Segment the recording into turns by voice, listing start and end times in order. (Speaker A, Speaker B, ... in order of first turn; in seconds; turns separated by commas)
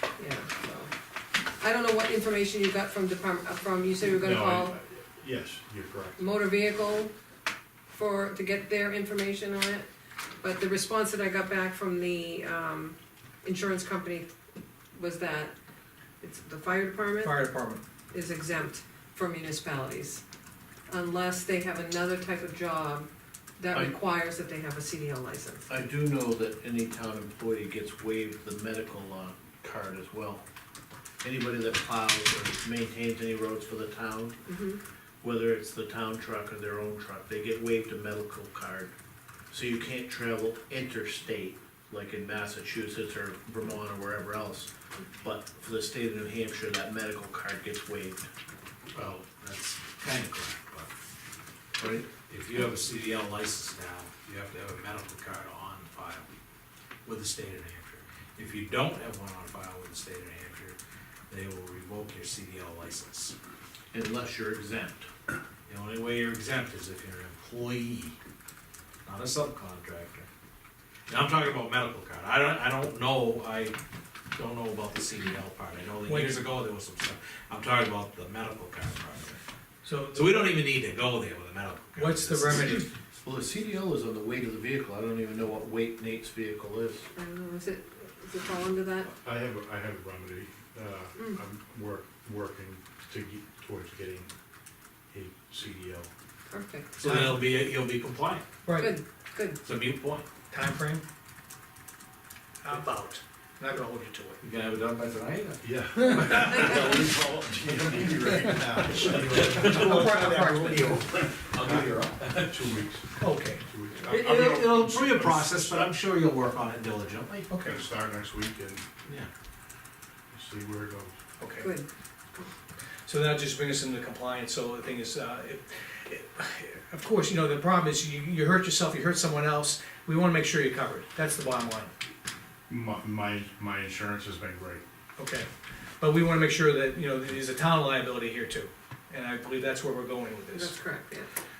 Speaker A: 0.2-0.9, Speaker A: 1.6-4.7, Speaker B: 4.1-6.2, Speaker A: 6.2-7.1, Speaker A: 7.9-9.9, Speaker A: 10.4-14.3, Speaker A: 14.9-15.5, Speaker A: 16.2-17.5, Speaker C: 17.2-17.8, Speaker A: 18.1-20.2, Speaker A: 20.9-25.6, Speaker D: 25.7-30.4, Speaker D: 31.2-34.4, Speaker A: 34.5-34.8, Speaker D: 35.2-38.9, Speaker D: 39.5-44.7, Speaker D: 45.2-48.3, Speaker E: 48.9-50.9, Speaker D: 51.8-52.1, Speaker E: 52.3-56.3, Speaker E: 57.0-60.8, Speaker E: 61.3-63.3, Speaker D: 63.9-65.1, Speaker E: 65.7-68.2, Speaker E: 69.0-70.3, Speaker E: 71.1-73.8, Speaker E: 74.3-79.4, Speaker C: 76.0-76.4, Speaker C: 79.8-80.6, Speaker E: 80.1-82.8, Speaker C: 82.0-82.8, Speaker D: 83.1-87.1, Speaker A: 87.1-89.1, Speaker B: 89.0-94.3, Speaker B: 95.1-96.1, Speaker A: 96.5-96.9, Speaker E: 96.9-98.5, Speaker C: 97.0-97.5, Speaker C: 98.6-99.0, Speaker A: 98.8-99.6, Speaker E: 99.6-100.2, Speaker C: 100.5-101.0, Speaker C: 102.6-104.4, Speaker E: 104.4-106.6, Speaker B: 105.6-110.3, Speaker E: 109.1-112.7, Speaker C: 109.6-111.0, Speaker B: 112.4-115.9, Speaker C: 113.2-113.6, Speaker E: 114.1-117.5, Speaker C: 117.5-117.8, Speaker B: 117.6-118.8, Speaker B: 120.3-121.1, Speaker C: 121.4-121.7, Speaker A: 121.6-121.9, Speaker C: 123.0-131.9, Speaker B: 132.7-134.8, Speaker C: 135.2-135.5, Speaker C: 136.0-140.7, Speaker A: 140.5-141.3